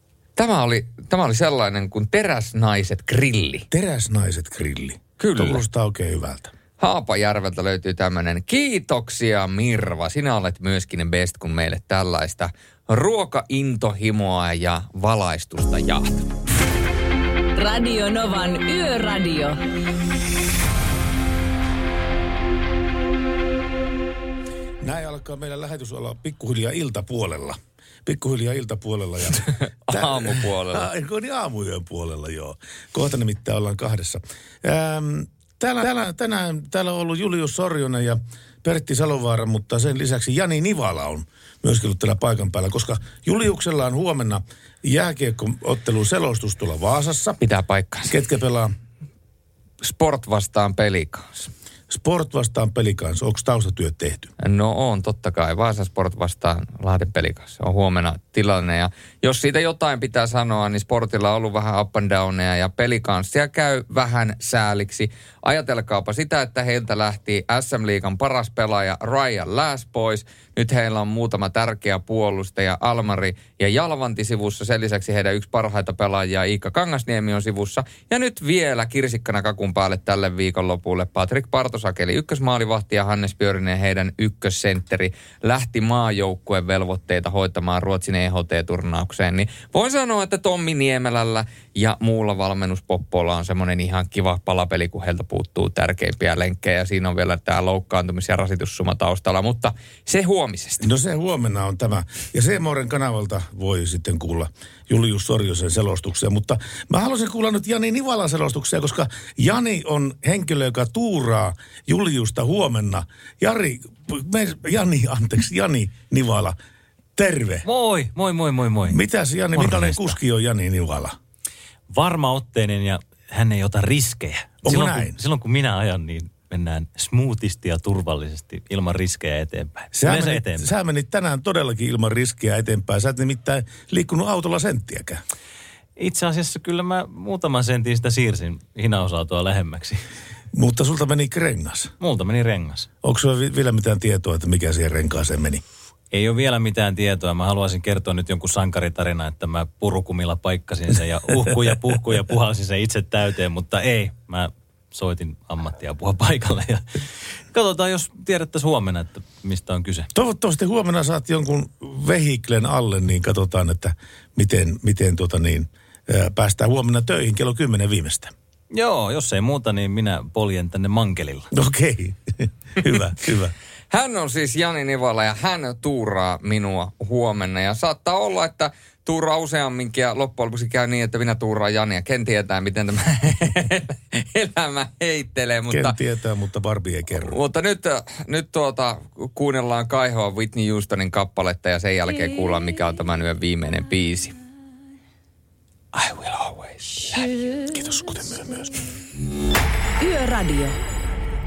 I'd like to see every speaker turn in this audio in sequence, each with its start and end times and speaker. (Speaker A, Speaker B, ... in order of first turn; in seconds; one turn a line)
Speaker A: 0.3-3.6
Speaker B: 3.7-6.5
Speaker A: 5.2-5.6
Speaker A: 6.8-16.3
Speaker C: 17.5-19.6
Speaker B: 24.8-47.4
Speaker A: 29.3-30.9
Speaker A: 47.4-48.1
Speaker B: 48.1-48.7
Speaker A: 49.8-51.5
Speaker B: 51.9-54.3
Speaker A: 54.4-100.9
Speaker B: 100.8-116.6
Speaker B: 117.2-117.7
Speaker D: 117.6-119.0
Speaker B: 118.9-121.2
Speaker D: 119.5-120.2
Speaker D: 121.9-130.7
Speaker B: 124.6-125.2
Speaker B: 129.9-135.2
Speaker D: 136.0-140.0
Speaker B: 140.5-141.9
Speaker D: 142.0-142.9
Speaker B: 143.0-145.6
Speaker D: 146.1-156.8
Speaker D: 157.5-160.1
Speaker B: 160.1-168.3
Speaker D: 168.7-171.5
Speaker B: 171.5-173.5
Speaker A: 173.9-185.9
Speaker B: 185.7-187.4
Speaker A: 187.2-194.4
Speaker A: 195.9-197.3
Speaker B: 197.6-198.7
Speaker C: 200.0-200.8